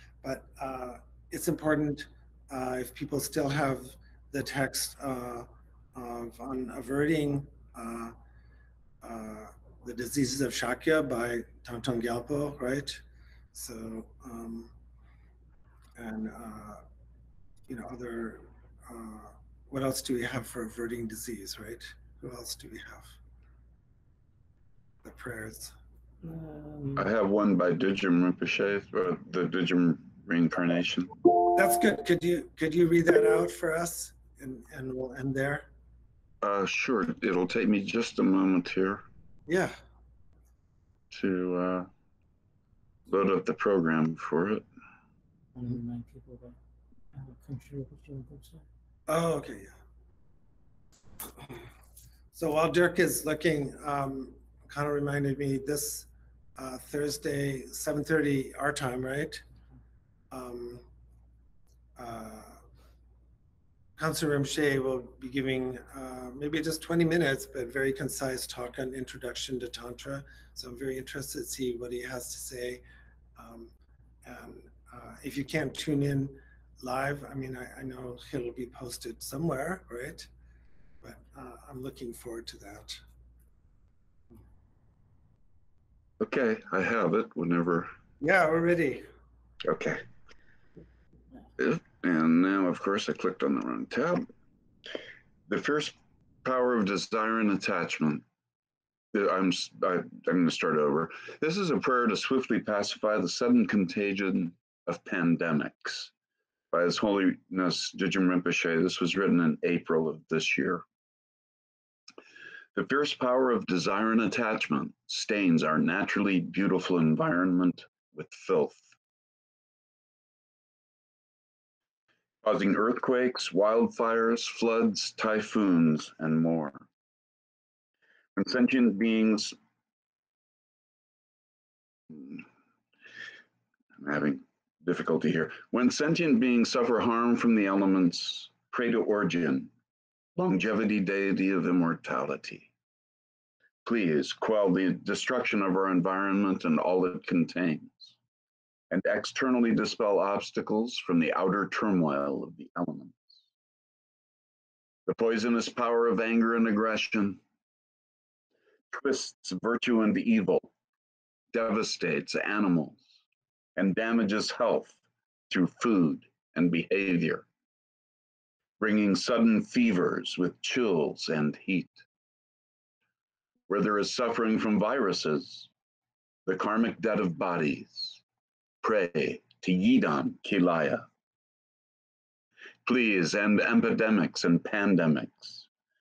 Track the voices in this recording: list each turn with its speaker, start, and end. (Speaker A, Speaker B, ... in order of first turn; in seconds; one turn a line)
Speaker A: 0.2-8.1
Speaker A: 9.0-14.7
Speaker A: 16.0-16.8
Speaker A: 17.7-23.1
Speaker A: 25.0-25.7
Speaker B: 26.2-27.0
Speaker C: 26.9-31.1
Speaker A: 31.5-35.7
Speaker C: 36.4-39.0
Speaker A: 39.5-39.7
Speaker C: 41.1-41.9
Speaker C: 43.1-44.6
Speaker B: 45.5-46.5
Speaker B: 47.1-48.6
Speaker A: 49.1-49.8
Speaker A: 52.3-59.4
Speaker A: 60.3-60.8
Speaker A: 62.0-62.6
Speaker A: 64.0-72.8
Speaker A: 73.3-73.7
Speaker A: 74.2-80.3
Speaker A: 81.0-83.0
Speaker C: 86.2-87.9
Speaker A: 88.2-89.0
Speaker C: 89.6-90.0
Speaker C: 91.6-94.3
Speaker C: 95.5-98.2
Speaker C: 99.1-106.1
Speaker C: 106.7-110.8
Speaker C: 112.7-118.8
Speaker C: 122.4-126.8
Speaker C: 128.3-129.6
Speaker C: 132.1-132.4
Speaker C: 134.0-139.7
Speaker C: 140.4-142.7
Speaker C: 143.8-148.2
Speaker C: 148.9-153.4
Speaker C: 155.1-157.4
Speaker C: 158.9-160.7
Speaker C: 161.5-163.1
Speaker C: 163.8-167.4
Speaker C: 168.8-172.0
Speaker C: 173.7-175.7
Speaker C: 176.4-178.2
Speaker C: 178.8-181.1
Speaker C: 182.8-185.7